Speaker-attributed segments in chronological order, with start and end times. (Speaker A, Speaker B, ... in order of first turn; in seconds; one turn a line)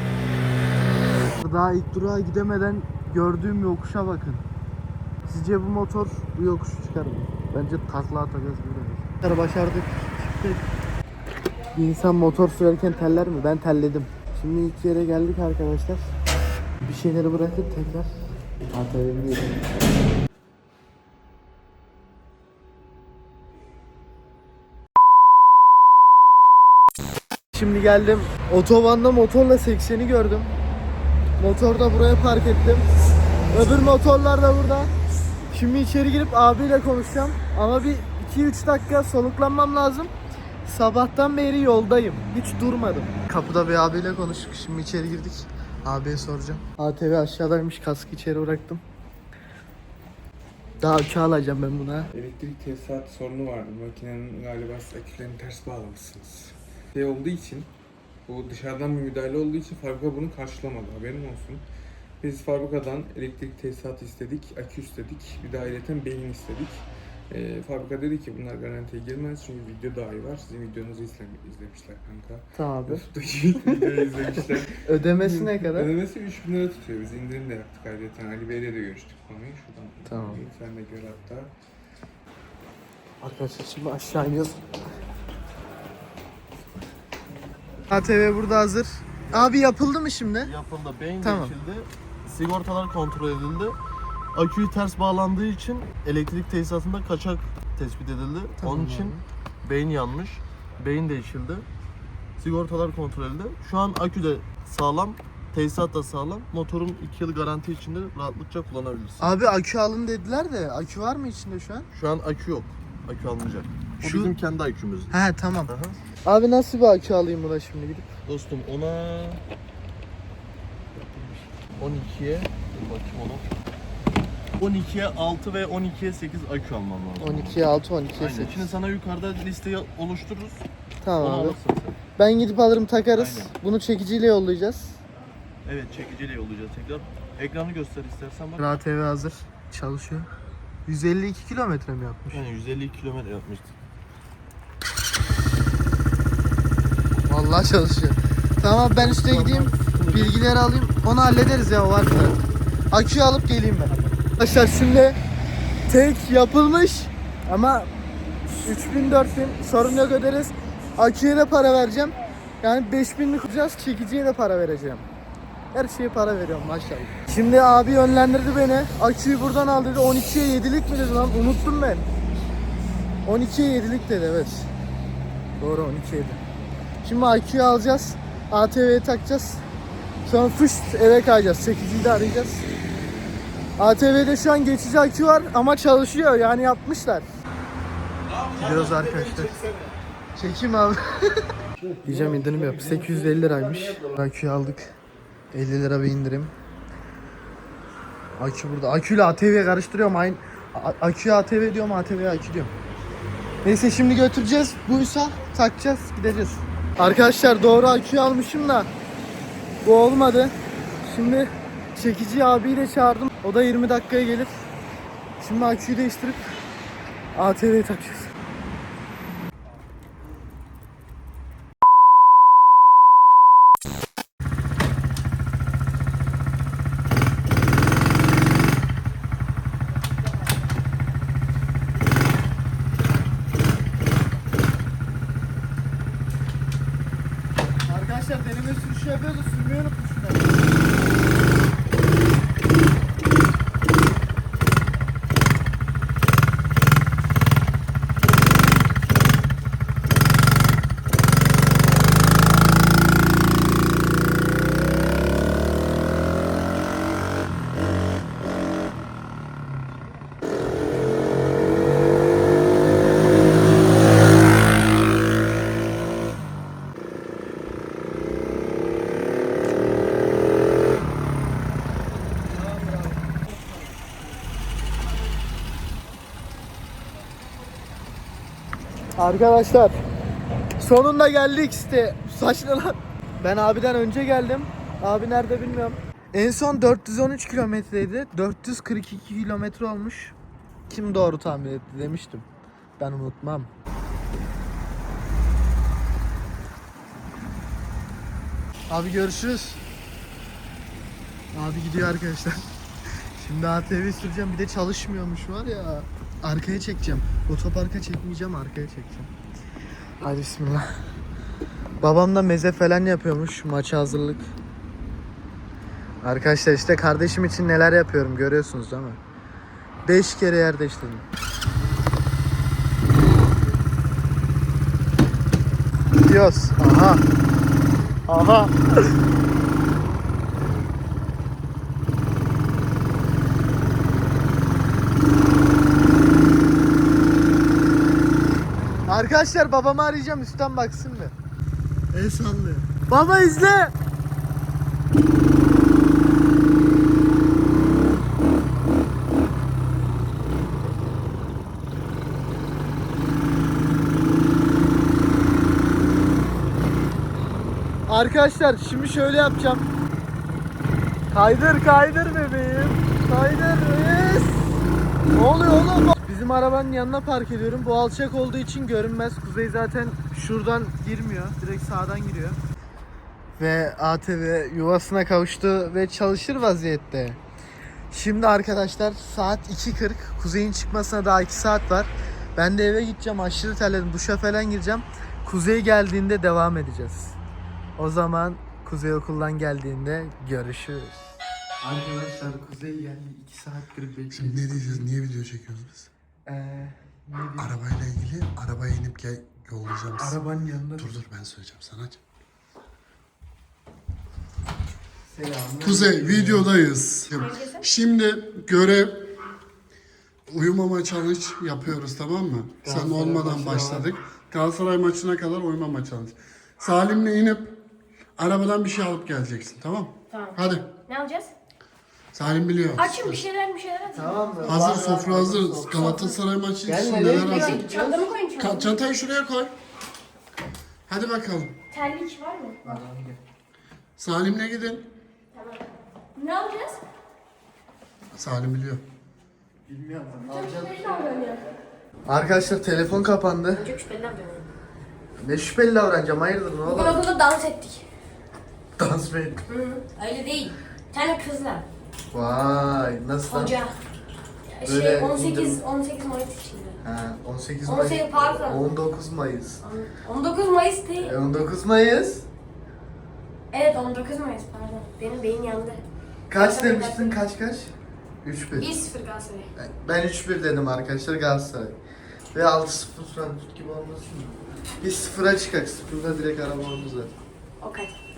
Speaker A: 1.3-4.5
Speaker A: 5.2-10.6
Speaker A: 11.7-16.1
Speaker A: 16.8-18.1
Speaker A: 18.7-19.6
Speaker A: 27.5-30.5
Speaker A: 31.4-32.9
Speaker A: 33.5-34.9
Speaker A: 35.5-40.1
Speaker A: 40.6-48.8
Speaker A: 50.8-52.1
Speaker B: 52.1-57.7
Speaker B: 58.3-61.6
Speaker B: 62.2-81.5
Speaker A: 72.5-73.0
Speaker A: 74.8-75.9
Speaker A: 80.0-80.4
Speaker A: 83.2-84.6
Speaker A: 87.9-90.5
Speaker C: 89.3-89.6
Speaker C: 90.4-93.8
Speaker A: 91.2-91.5
Speaker C: 94.3-101.7
Speaker A: 98.6-99.2
Speaker C: 102.4-109.3
Speaker A: 109.2-111.9
Speaker C: 111.9-115.1
Speaker A: 114.0-114.3
Speaker A: 115.1-115.7
Speaker C: 115.7-116.0
Speaker A: 116.2-118.1
Speaker C: 118.2-119.4
Speaker A: 121.1-121.4
Speaker C: 121.8-123.5
Speaker C: 124.6-127.6
Speaker A: 127.2-128.7
Speaker C: 128.2-130.6
Speaker A: 131.0-131.6
Speaker C: 131.2-131.9
Speaker A: 132.2-135.0
Speaker C: 133.1-133.5
Speaker C: 135.6-138.8
Speaker A: 138.6-140.3
Speaker A: 140.8-142.4
Speaker C: 142.3-143.7
Speaker A: 147.3-152.4
Speaker C: 148.9-150.3
Speaker A: 152.9-155.2
Speaker A: 155.9-157.9
Speaker A: 158.6-165.1
Speaker A: 165.7-172.1
Speaker A: 173.2-174.7
Speaker A: 175.6-176.4
Speaker A: 177.0-179.6
Speaker A: 180.2-182.7
Speaker A: 183.8-187.3
Speaker C: 188.3-190.0
Speaker A: 188.5-189.6
Speaker A: 190.3-191.5
Speaker C: 191.9-194.2
Speaker A: 192.0-194.9
Speaker A: 195.5-196.5
Speaker A: 198.4-202.7
Speaker A: 203.6-208.9
Speaker A: 209.8-214.6
Speaker A: 215.4-216.5
Speaker A: 217.3-218.3
Speaker A: 237.8-240.7
Speaker A: 272.5-274.0
Speaker A: 279.2-280.0
Speaker A: 280.8-290.3
Speaker A: 290.9-292.5
Speaker A: 293.0-293.7
Speaker A: 298.9-299.8
Speaker A: 301.5-302.7
Speaker A: 303.4-309.3
Speaker A: 310.2-310.9
Speaker A: 312.0-314.5
Speaker A: 316.2-319.2
Speaker A: 320.0-321.2
Speaker A: 326.2-327.2
Speaker A: 328.3-329.1
Speaker A: 339.1-341.3
Speaker A: 342.1-343.9
Speaker A: 358.1-359.9
Speaker A: 361.3-364.8
Speaker A: 365.3-372.6
Speaker A: 373.6-377.4
Speaker A: 378.1-387.4
Speaker A: 388.0-395.1
Speaker D: 394.3-396.1
Speaker A: 396.4-397.7
Speaker D: 397.6-400.4
Speaker A: 400.2-401.1
Speaker D: 401.0-402.2
Speaker A: 405.3-406.7
Speaker D: 405.8-409.3
Speaker E: 407.3-407.8
Speaker D: 410.5-417.8
Speaker A: 412.8-414.1
Speaker D: 418.4-420.9
Speaker E: 420.3-421.5
Speaker D: 422.3-423.4
Speaker E: 423.0-424.4
Speaker A: 424.1-428.3
Speaker D: 424.6-427.9
Speaker E: 427.3-428.9
Speaker D: 428.6-429.7
Speaker D: 431.1-431.8
Speaker E: 431.9-433.0
Speaker A: 432.8-433.4
Speaker D: 434.2-435.1
Speaker E: 435.5-435.8
Speaker E: 436.4-437.0
Speaker D: 438.3-439.0
Speaker A: 439.9-441.4
Speaker E: 440.5-441.6
Speaker A: 442.3-443.8
Speaker E: 443.7-444.7
Speaker A: 445.4-447.2
Speaker E: 446.9-448.0
Speaker A: 449.0-449.6
Speaker E: 449.7-451.9
Speaker A: 452.3-453.7
Speaker E: 453.5-453.9
Speaker E: 454.7-457.0
Speaker A: 454.8-455.8
Speaker A: 457.0-459.8
Speaker E: 457.9-458.8
Speaker E: 459.8-461.3
Speaker A: 461.2-462.5
Speaker E: 463.7-466.0
Speaker A: 466.5-468.9
Speaker E: 466.6-467.4
Speaker E: 468.8-469.7
Speaker A: 469.8-472.0
Speaker A: 472.5-477.3
Speaker E: 477.8-478.1